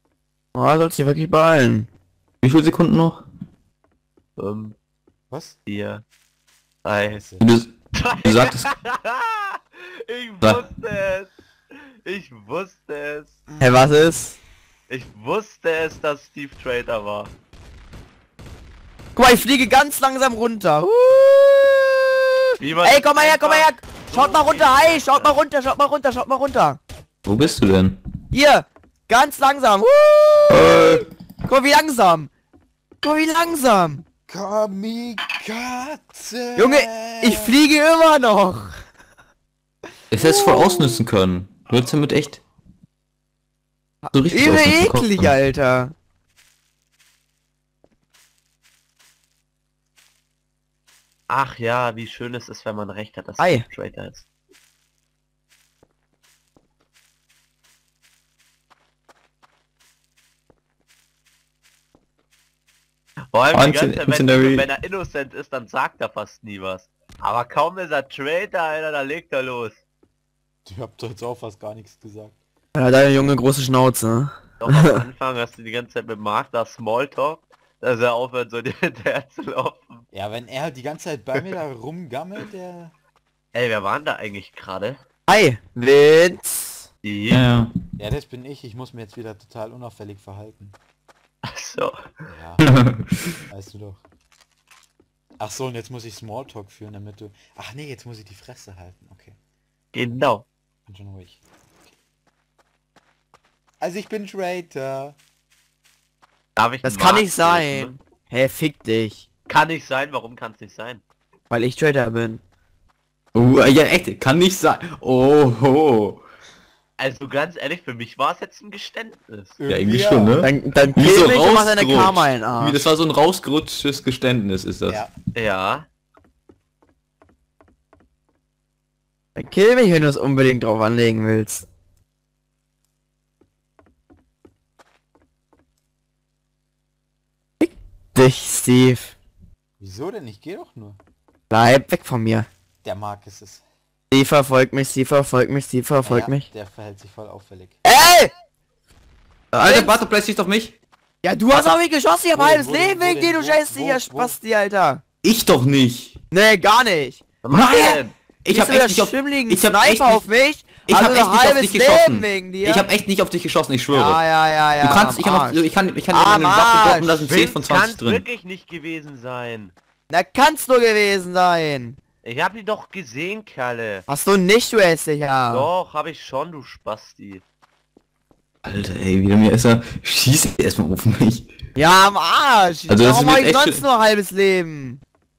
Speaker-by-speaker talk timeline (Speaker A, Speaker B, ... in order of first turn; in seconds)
Speaker A: 0.6-1.9, 13.6-14.4, 19.2-26.8, 28.3-32.3, 33.0-34.0, 36.6-38.8, 40.1-41.0, 44.0-45.9, 53.4-53.6, 72.8-75.0, 85.3-86.9, 106.8-109.3, 111.5-112.4, 120.4-122.9, 129.4-131.7, 137.6-139.2, 141.5-142.5, 144.1-146.5, 147.8-148.3, 149.6-150.0, 151.2-155.0, 156.3-157.2, 158.5-162.8, 163.9-167.3, 170.1-172.0, 174.1-175.7, 181.8-185.0
Speaker B: 2.4-3.2, 7.4-8.7, 27.2-28.0, 30.5-31.1, 40.1-42.4, 44.1-45.4, 63.5-64.7, 87.3-87.7, 92.6-93.3, 113.3-116.2, 119.7-125.0, 149.5-150.8, 155.2-156.2, 157.5-160.2, 160.9-164.2, 164.8-168.2, 178.6-181.5, 182.9-183.8
Speaker C: 4.4-4.8, 5.7-6.0, 6.8-7.2, 7.9-13.3, 14.9-17.3, 22.6-25.4, 51.3-54.2, 63.3-69.8, 74.6-80.1, 83.5-85.0, 87.0-87.4, 91.4-92.1, 99.9-100.5, 106.6-107.9, 109.5-111.0, 117.0-119.6, 125.3-125.9, 157.4-158.1, 167.3-169.7, 172.2-174.0, 175.5-177.4
Speaker D: 5.3-5.6, 6.9-7.5, 34.3-37.6, 70.7-72.4, 80.1-82.9, 88.0-90.8, 92.3-92.7, 93.5-94.0, 95.4-99.4, 100.9-101.4, 103.8-105.2, 119.6-120.4, 139.8-141.0, 142.8-143.6, 146.0-147.8, 152.3-154.4